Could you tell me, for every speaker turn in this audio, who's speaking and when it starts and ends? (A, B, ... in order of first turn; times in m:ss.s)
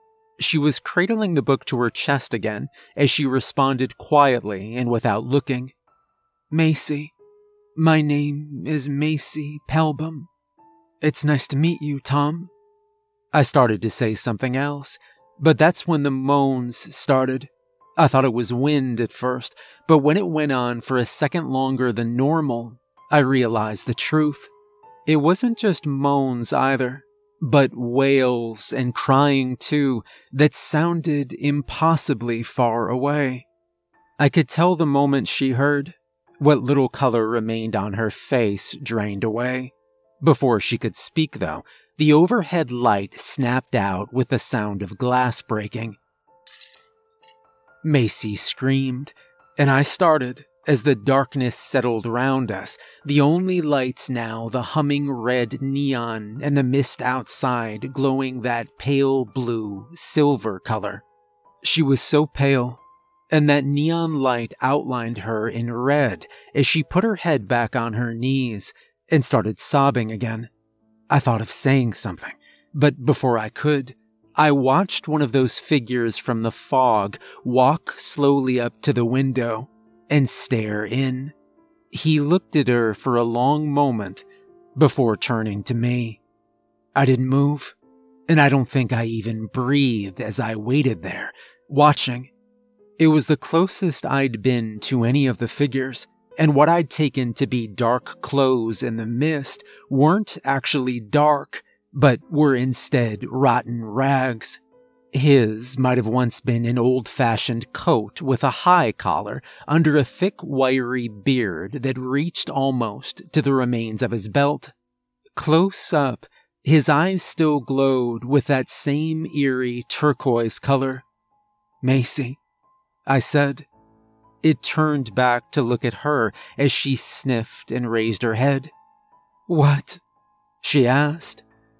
0:00.4-0:05.7 A
0:06.5-0:07.1 A
0:07.8-0:10.3 A
0:11.0-0:12.5 A
0:13.3-0:24.5 A
0:25.0-0:33.4 A
0:34.2-0:46.0 A
0:47.8-1:01.0 A
1:01.6-1:02.8 A
1:03.3-1:10.5 A
1:11.1-1:21.3 A
1:21.9-1:24.2 A
1:24.8-1:26.2 A
1:26.9-1:27.8 A
1:28.3-1:32.3 A
1:33.0-1:44.6 A
1:45.1-1:54.7 A
1:55.4-2:01.0 A
2:01.8-2:02.4 A
2:03.0-2:03.7 A
2:04.4-2:08.7 A
2:09.5-2:10.0 A
2:10.6-2:11.4 A